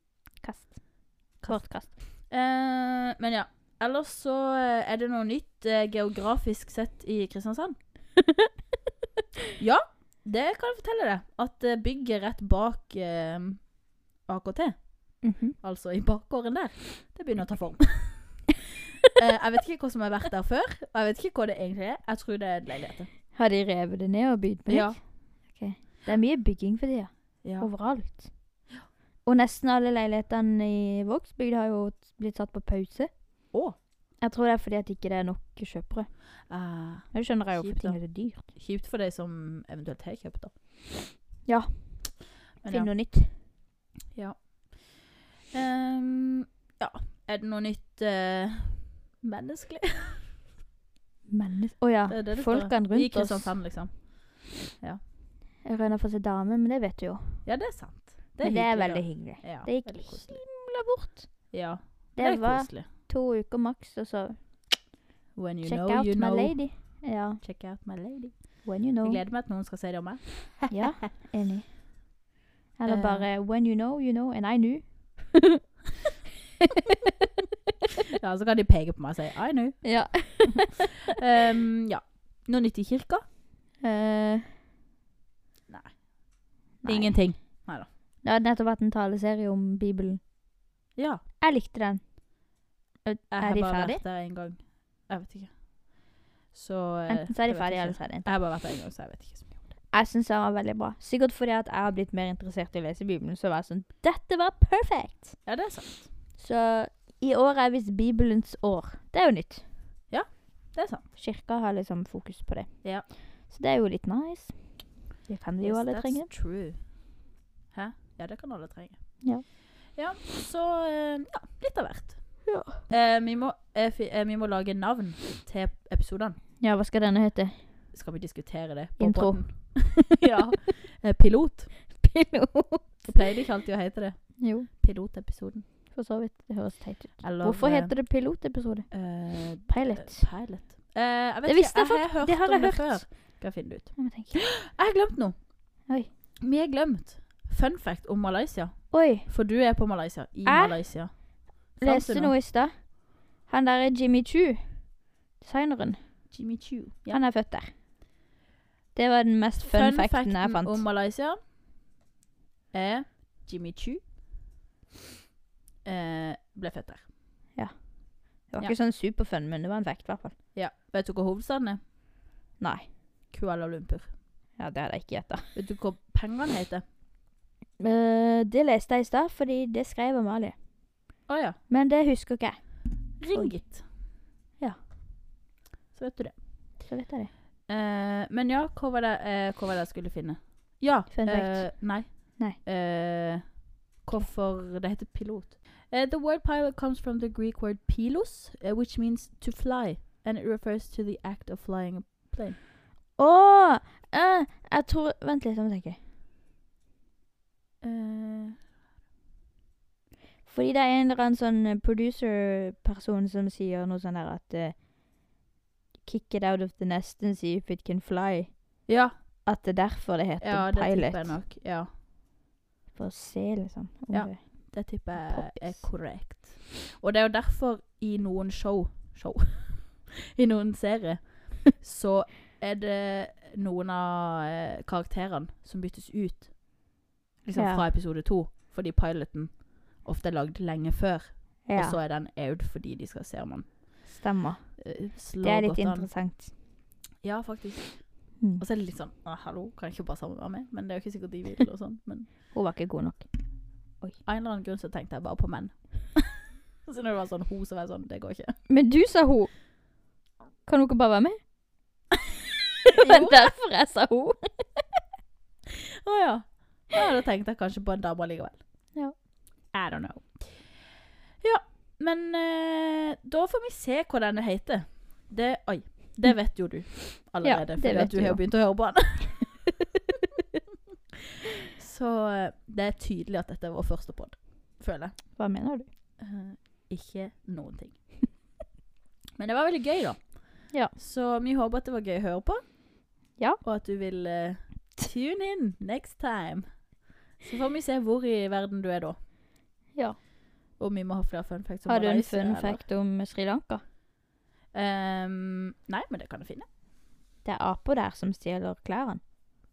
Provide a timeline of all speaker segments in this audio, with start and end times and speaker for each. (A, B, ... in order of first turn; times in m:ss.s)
0:00.4-0:01.9 A
0:01.4-0:07.8 B
0:09.6-0:18.5 B
0:15.2-0:15.6 A
0:19.1-0:23.1 B
0:23.3-0:28.3 A
0:24.7-0:25.0 B
0:27.4-0:27.7 B
0:29.2-0:33.1 A
0:34.2-0:36.5 A
0:36.5-0:40.6 B
0:37.1-0:38.5 A
0:41.4-0:43.3 A
0:42.6-0:42.9 B
0:44.1-0:50.3 B
0:51.3-0:53.7 A
0:52.1-0:55.0 B
0:55.6-0:57.4 A
0:57.4-1:00.4 B
0:58.4-1:01.6 A
1:01.5-1:02.9 B
1:02.1-1:04.9 A
1:05.4-1:10.8 B
1:05.6-1:07.4 A
1:08.6-1:09.2 A
1:10.7-1:11.7 A
1:12.8-1:15.4 A
1:12.8-1:13.3 B
1:18.2-1:20.6 B
1:19.8-1:20.7 A
1:21.1-1:23.2 B
1:23.8-1:24.5 A
1:25.7-1:27.9 B
1:26.8-1:27.7 A
1:28.2-1:30.2 A
1:31.0-1:31.2 B
1:31.4-1:32.2 A
1:33.0-1:34.0 A
1:33.3-1:35.9 B
1:36.5-1:39.7 B
1:37.1-1:38.3 A
1:39.9-1:45.4 A
1:45.4-1:46.1 B
1:46.4-1:49.6 A
1:50.1-1:51.1 B
1:51.2-1:56.3 A
1:55.6-2:06.4 B
2:02.5-2:02.8 A
2:06.6-2:07.7 A
2:07.9-2:12.0 B
2:09.0-2:10.0 A
2:11.9-2:13.1 A
2:13.0-2:15.7 B
2:14.4-2:14.7 A
2:15.9-2:20.3 A
2:17.2-2:25.8 B
2:21.4-2:23.4 A
2:24.0-2:24.4 A
2:26.4-2:32.3 B
2:28.9-2:29.3 A
2:30.4-2:36.0 A
2:36.3-2:37.2 B
2:37.1-2:37.7 A
2:38.9-2:40.8 A
2:39.6-2:41.4 B
2:42.7-2:44.3 B
2:45.8-2:47.1 B
2:47.5-2:50.4 A
2:50.5-2:51.8 B
2:52.6-2:52.9 A
2:53.3-2:54.2 B
2:54.6-2:55.5 A
2:55.5-2:56.8 B
2:57.8-3:00.6 A
3:01.3-3:01.6 B
3:01.7-3:03.8 A
3:03.2-3:03.8 B
3:05.9-3:06.4 B
3:06.8-3:07.3 A
3:07.7-3:22.6 B
3:11.1-3:12.6 A
3:23.2-3:26.0 A
3:27.8-3:28.6 B
3:30.4-3:34.8 A
3:36.0-3:41.4 A
3:38.9-3:39.4 B
3:40.4-3:41.9 B
3:43.0-3:45.9 A
3:44.1-4:04.2 B
3:57.5-3:57.9 A
4:01.6-4:02.0 A
4:04.1-4:06.5 A
4:04.8-4:06.1 B
4:07.2-4:12.3 B
4:08.4-4:08.6 A
4:12.5-4:14.2 A
4:14.2-4:18.6 B
4:18.7-4:19.6 A
4:20.6-4:21.6 A
4:23.0-4:23.5 B
4:23.0-4:24.8 A
4:26.0-4:28.9 B
4:29.7-4:39.6 B
4:36.9-4:38.4 A
4:41.7-4:45.4 B
4:45.3-4:45.9 A
4:46.2-4:48.2 B
4:49.4-4:52.9 B
4:53.6-4:59.2 B
5:00.8-5:02.8 B
5:01.8-5:03.8 A
5:04.7-5:06.7 B
5:07.4-5:09.4 A